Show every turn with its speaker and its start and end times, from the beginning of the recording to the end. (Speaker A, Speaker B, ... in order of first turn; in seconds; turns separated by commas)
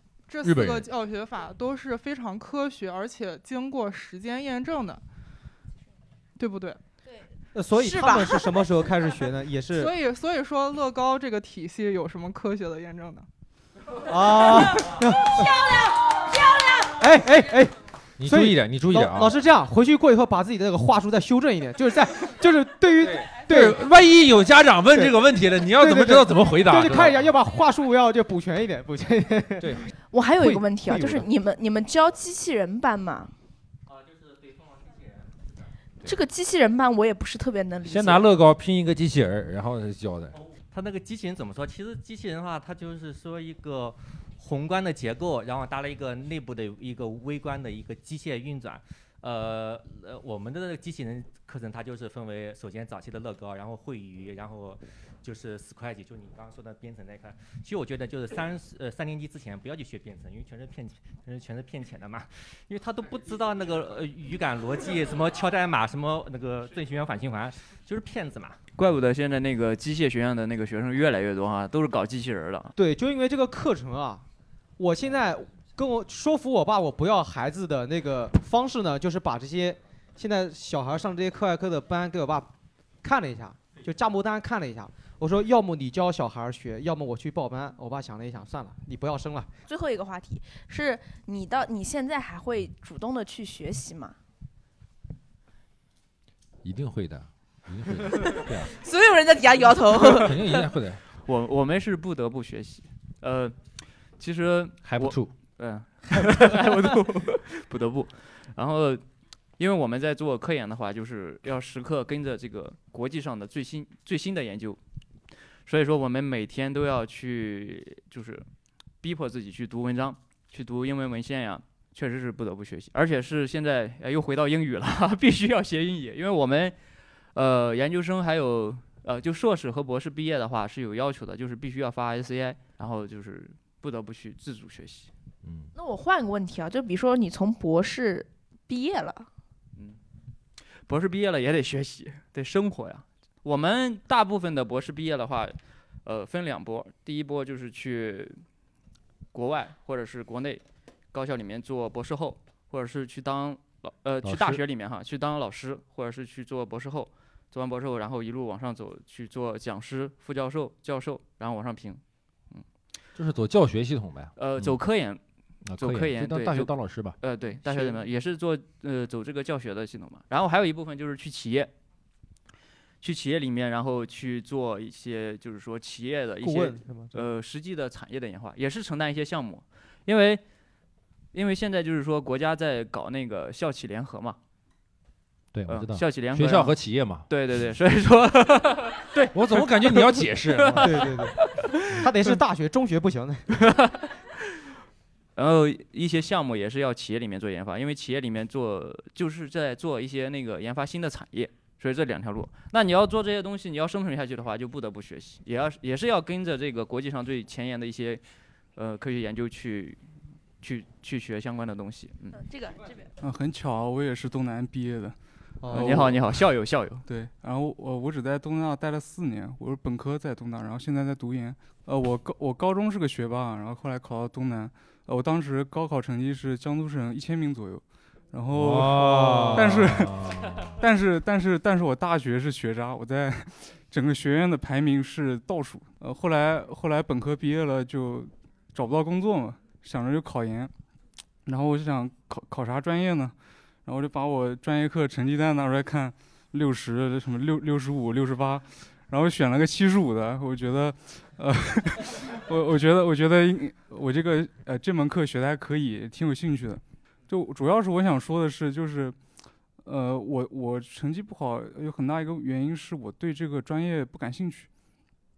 Speaker A: 0.3-5.0, Speaker B: 0.4-0.9, Speaker A: 6.4-6.8, Speaker C: 7.5-9.9, Speaker D: 7.8-8.3, Speaker A: 9.7-13.3, Speaker C: 14.1-15.5, Speaker D: 15.4-15.7, Speaker C: 17.0-23.8, Speaker B: 18.2-19.3, Speaker B: 23.0-27.3, Speaker C: 25.8-29.7, Speaker B: 29.6-29.9, Speaker D: 30.1-33.3, Speaker C: 30.4-31.3, Speaker E: 33.9-35.5, Speaker D: 36.0-38.2, Speaker B: 37.8-40.4, Speaker E: 40.3-68.6, Speaker F: 68.8-72.7, Speaker C: 72.8-74.3, Speaker C: 74.8-82.5, Speaker C: 83.0-89.5, Speaker D: 89.7-94.2, Speaker B: 96.6-98.7, Speaker D: 98.3-100.5, Speaker B: 100.0-101.0, Speaker F: 101.2-109.0, Speaker B: 104.8-105.3, Speaker F: 109.6-114.8, Speaker F: 115.6-118.5, Speaker F: 119.0-126.8, Speaker F: 127.3-135.1, Speaker B: 135.4-135.7, Speaker D: 135.7-139.3, Speaker F: 139.7-140.0, Speaker F: 140.8-148.4, Speaker F: 149.3-162.7, Speaker B: 154.2-154.6, Speaker B: 163.2-164.8, Speaker F: 164.4-165.2, Speaker B: 165.6-167.2, Speaker F: 165.8-171.7, Speaker C: 167.7-167.9, Speaker F: 173.0-180.4, Speaker C: 176.4-177.1, Speaker F: 181.3-184.4, Speaker B: 185.5-187.3, Speaker F: 185.7-186.8, Speaker F: 187.3-192.0, Speaker B: 189.3-190.9, Speaker C: 190.8-191.4, Speaker C: 191.9-193.6, Speaker F: 193.6-194.1, Speaker F: 195.4-208.2, Speaker F: 208.8-210.0, Speaker F: 210.6-212.4, Speaker D: 212.3-213.1, Speaker G: 213.2-216.4, Speaker C: 215.6-216.2, Speaker F: 215.7-217.0, Speaker G: 217.1-230.1, Speaker B: 228.5-230.8, Speaker C: 228.9-229.7, Speaker G: 230.8-240.7, Speaker G: 241.4-259.2, Speaker G: 259.8-264.7